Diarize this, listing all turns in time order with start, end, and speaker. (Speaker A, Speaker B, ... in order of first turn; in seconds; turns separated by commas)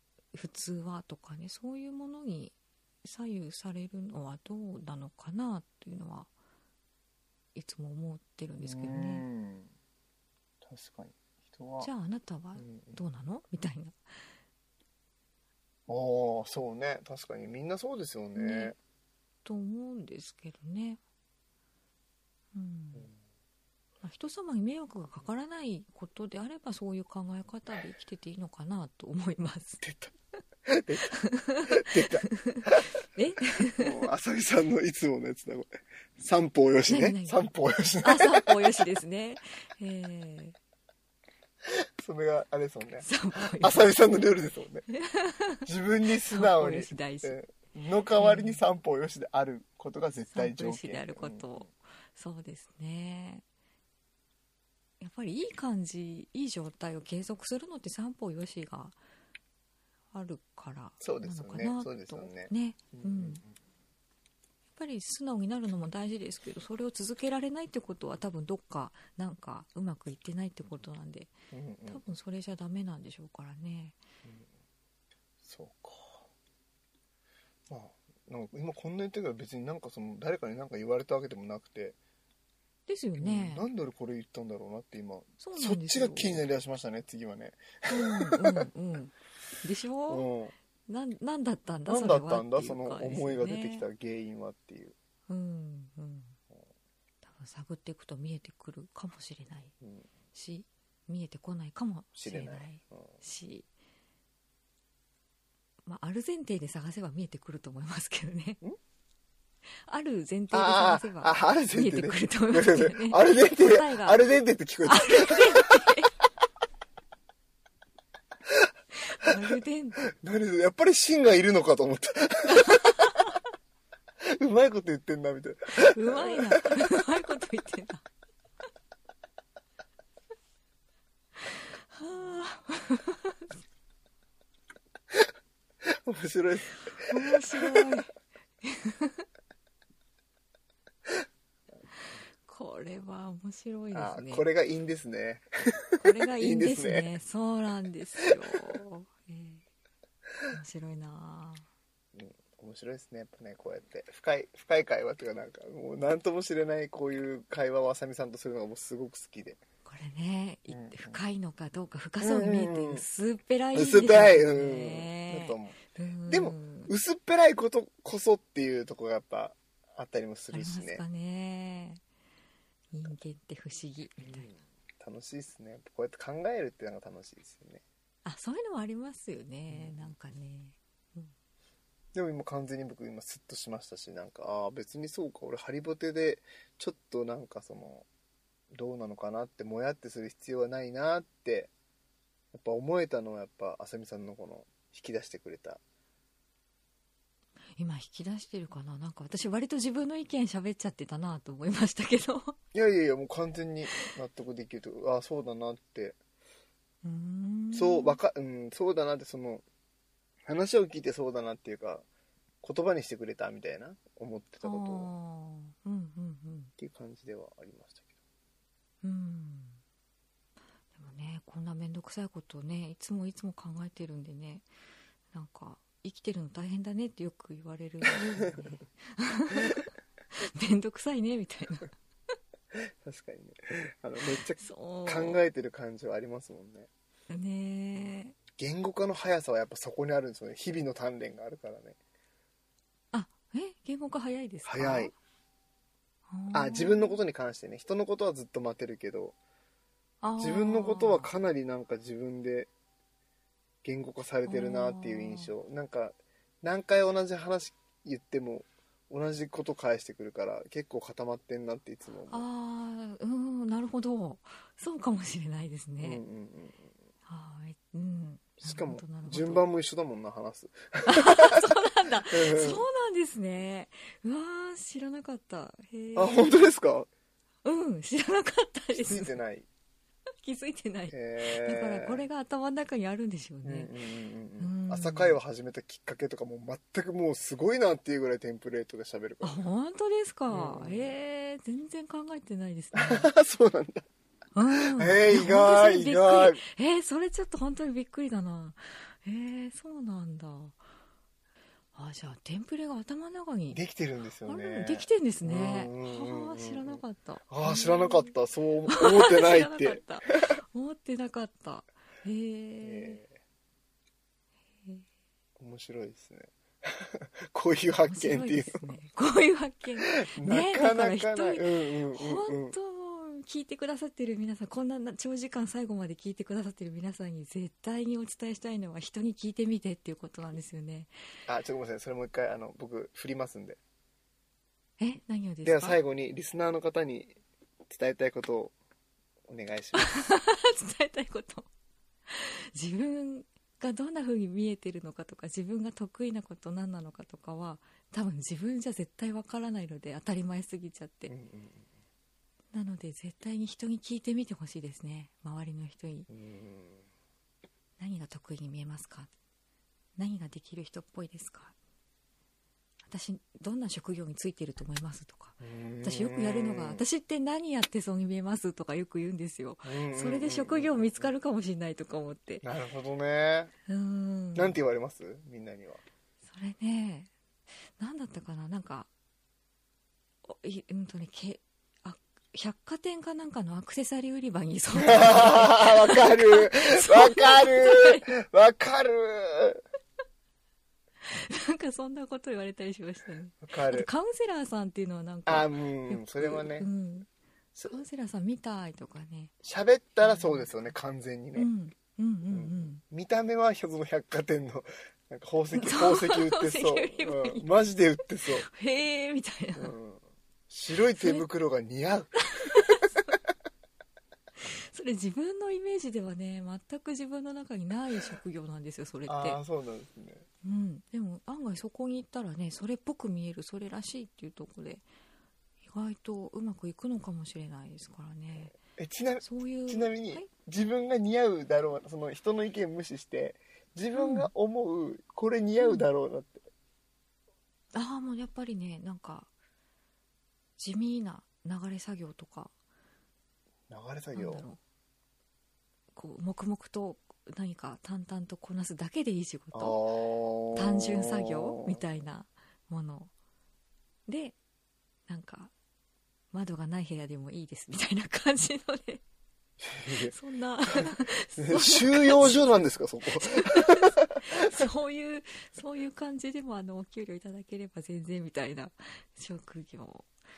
Speaker A: 0.3-6.3, Speaker A: 7.5-9.2, Speaker B: 8.6-9.7, Speaker B: 10.6-11.9, Speaker A: 11.8-14.0, Speaker B: 12.6-13.0, Speaker B: 15.9-18.8, Speaker A: 18.4-18.7, Speaker A: 19.4-21.0, Speaker A: 22.5-23.1, Speaker A: 24.0-29.8, Speaker B: 29.8-30.1, Speaker B: 30.7-31.1, Speaker A: 31.1-34.1, Speaker B: 31.7-32.9, Speaker B: 33.6-38.8, Speaker A: 36.9-37.5, Speaker A: 38.0-40.6, Speaker B: 41.7-44.9, Speaker A: 43.0-43.9, Speaker A: 44.9-45.7, Speaker B: 45.6-51.6, Speaker A: 46.2-47.4, Speaker A: 48.2-48.6, Speaker A: 50.3-53.4, Speaker A: 55.0-59.0, Speaker A: 60.1-63.4, Speaker B: 61.0-63.5, Speaker A: 64.8-71.3, Speaker B: 71.5-72.1, Speaker A: 71.9-74.0, Speaker B: 75.4-76.3, Speaker B: 77.7-82.0, Speaker A: 82.9-83.7, Speaker B: 83.2-88.7, Speaker A: 85.4-86.4, Speaker A: 87.9-90.3, Speaker B: 90.1-90.5, Speaker A: 90.9-93.9, Speaker B: 91.9-95.0, Speaker A: 95.3-96.4, Speaker A: 97.2-99.7, Speaker B: 99.8-100.1, Speaker A: 100.3-103.7, Speaker B: 102.2-103.1, Speaker A: 105.8-108.6, Speaker A: 109.8-114.2, Speaker B: 110.5-115.9, Speaker A: 114.8-116.1, Speaker A: 119.0-120.0, Speaker B: 120.1-123.3, Speaker A: 122.6-123.3, Speaker B: 124.2-127.0, Speaker A: 125.8-128.1, Speaker A: 131.4-133.5, Speaker B: 135.9-138.0, Speaker A: 137.0-138.1, Speaker A: 138.6-139.3, Speaker A: 142.4-144.5, Speaker B: 143.9-147.1, Speaker A: 146.0-149.6, Speaker B: 148.2-148.8, Speaker A: 150.5-151.7, Speaker B: 152.2-159.6, Speaker A: 159.8-166.9, Speaker B: 160.7-161.2, Speaker B: 162.2-163.1, Speaker B: 163.7-171.0, Speaker A: 170.5-172.0, Speaker A: 172.9-174.5, Speaker B: 174.2-177.8, Speaker A: 178.2-181.3, Speaker B: 179.7-180.1, Speaker B: 182.1-188.1, Speaker B: 188.7-191.7, Speaker B: 192.5-195.8, Speaker A: 197.8-202.6, Speaker B: 202.7-206.2, Speaker A: 207.0-208.2, Speaker B: 207.7-209.6, Speaker B: 210.5-212.1, Speaker B: 212.6-215.1, Speaker A: 214.6-216.7, Speaker B: 216.8-218.1, Speaker A: 219.0-219.8, Speaker A: 220.9-224.7, Speaker A: 225.3-231.9, Speaker B: 228.1-228.8, Speaker B: 232.7-236.9, Speaker A: 234.6-235.4, Speaker A: 237.3-238.4, Speaker B: 238.5-242.0, Speaker A: 243.1-245.1, Speaker B: 244.7-245.1, Speaker A: 246.3-247.2, Speaker B: 246.5-249.4, Speaker A: 250.2-251.3, Speaker B: 250.4-252.7, Speaker B: 253.8-262.4, Speaker A: 254.5-255.5, Speaker A: 262.3-266.2, Speaker B: 266.0-266.9, Speaker A: 267.3-269.7, Speaker B: 268.6-272.9, Speaker A: 271.1-276.5, Speaker B: 276.1-277.1, Speaker A: 277.6-279.4, Speaker B: 278.9-279.7, Speaker A: 280.4-283.9, Speaker B: 281.1-282.2, Speaker B: 283.6-289.6, Speaker A: 284.6-285.4, Speaker A: 289.4-293.3, Speaker B: 290.5-291.1, Speaker B: 292.9-294.1, Speaker A: 294.6-300.8, Speaker B: 294.7-296.6, Speaker A: 301.9-303.8, Speaker B: 303.7-310.5, Speaker A: 304.5-308.3, Speaker A: 308.9-313.2, Speaker B: 312.8-313.4, Speaker B: 315.6-318.9, Speaker A: 318.1-331.1, Speaker B: 320.1-322.8, Speaker B: 331.5-333.8, Speaker A: 335.0-336.0, Speaker B: 335.6-337.4, Speaker B: 337.9-338.8, Speaker B: 339.5-340.2, Speaker A: 340.0-341.7, Speaker A: 342.3-351.3, Speaker B: 351.3-351.9, Speaker A: 352.7-356.3, Speaker B: 356.3-357.1, Speaker A: 358.0-359.3, Speaker A: 360.2-361.8, Speaker A: 363.1-372.6, Speaker B: 365.6-367.0, Speaker B: 369.8-371.3, Speaker B: 372.6-373.7, Speaker A: 373.9-374.8, Speaker B: 374.6-376.0, Speaker A: 376.4-377.3, Speaker A: 378.0-379.1, Speaker A: 380.4-388.3, Speaker B: 385.0-389.8, Speaker A: 391.2-397.3, Speaker B: 393.6-394.1, Speaker B: 395.5-396.9, Speaker A: 397.8-399.5, Speaker B: 399.6-401.7, Speaker A: 400.2-400.7, Speaker A: 401.6-403.0, Speaker B: 402.5-408.7, Speaker A: 405.7-407.7, Speaker A: 408.5-409.9, Speaker B: 409.8-413.1, Speaker A: 411.1-411.5, Speaker A: 412.5-413.4, Speaker A: 414.6-419.6, Speaker B: 419.3-420.5, Speaker A: 420.6-425.1, Speaker A: 425.8-428.8, Speaker B: 428.8-436.6, Speaker A: 429.4-430.5, Speaker A: 434.1-434.5, Speaker A: 437.9-439.5, Speaker A: 440.8-442.7, Speaker B: 443.9-444.7, Speaker A: 444.4-444.8, Speaker A: 446.1-450.0, Speaker B: 449.7-452.0, Speaker A: 450.7-453.3, Speaker A: 454.3-454.6, Speaker A: 455.3-455.7, Speaker A: 456.5-459.2, Speaker B: 459.8-460.3, Speaker A: 460.1-462.7, Speaker B: 461.0-464.7, Speaker A: 463.4-470.3